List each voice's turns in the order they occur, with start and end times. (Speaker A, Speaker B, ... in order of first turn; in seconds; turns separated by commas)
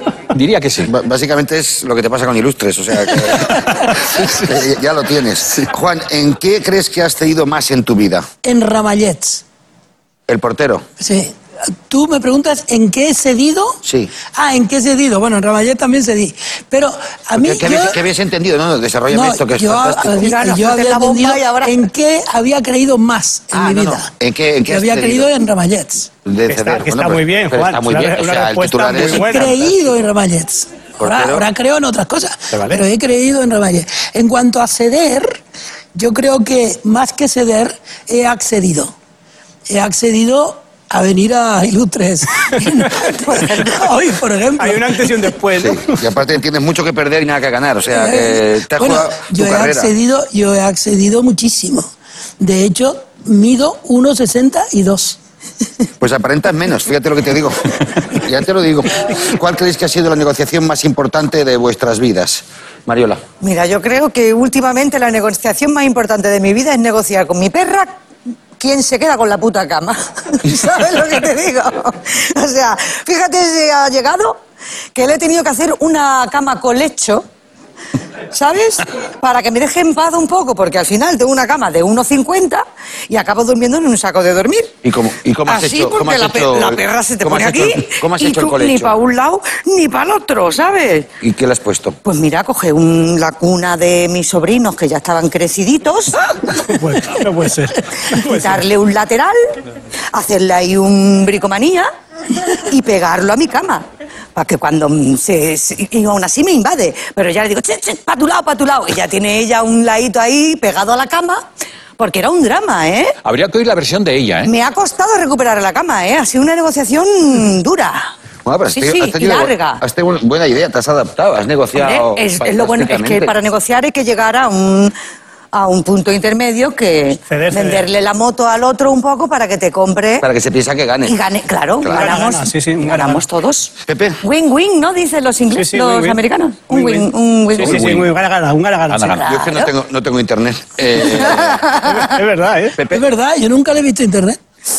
Speaker A: 0.3-0.9, Speaker B: 0.9-8.3, Speaker A: 4.1-4.5, Speaker C: 8.4-9.4, Speaker B: 10.3-10.8, Speaker C: 11.0-11.4, Speaker C: 11.9-13.8, Speaker B: 13.8-14.1, Speaker C: 14.3-18.0, Speaker B: 17.4-20.2, Speaker C: 19.1-24.1, Speaker D: 20.1-21.8, Speaker B: 23.6-25.3, Speaker C: 24.7-26.1, Speaker B: 26.2-29.5, Speaker E: 26.5-29.6, Speaker C: 29.0-35.4, Speaker B: 31.0-31.5, Speaker E: 32.5-32.8, Speaker C: 36.0-38.9, Speaker C: 39.7-45.3, Speaker E: 44.6-46.0, Speaker B: 45.6-49.9, Speaker C: 47.9-55.2, Speaker B: 56.0-63.2, Speaker D: 63.4-67.9, Speaker D: 68.6-74.4, Speaker D: 75.0-77.2, Speaker D: 78.3-84.7, Speaker B: 84.8-88.9, Speaker D: 85.5-91.1, Speaker B: 91.2-92.0, Speaker D: 92.0-96.2, Speaker E: 96.5-98.6, Speaker D: 98.1-99.4, Speaker D: 100.1-101.9, Speaker D: 102.5-111.4, Speaker D: 112.0-113.2, Speaker A: 113.2-114.5, Speaker D: 114.5-118.1, Speaker B: 118.5-123.3, Speaker D: 118.7-119.8, Speaker D: 121.8-124.9, Speaker D: 125.5-130.3, Speaker E: 127.3-127.8, Speaker B: 130.2-131.1, Speaker D: 131.1-138.0, Speaker B: 131.8-132.1, Speaker E: 131.9-133.2, Speaker B: 133.9-134.2, Speaker E: 135.5-139.2, Speaker A: 137.6-138.1, Speaker A: 138.9-139.2, Speaker D: 139.1-139.7, Speaker B: 139.3-141.7, Speaker D: 141.4-142.0, Speaker E: 141.8-142.8, Speaker B: 142.8-143.0, Speaker C: 142.9-144.4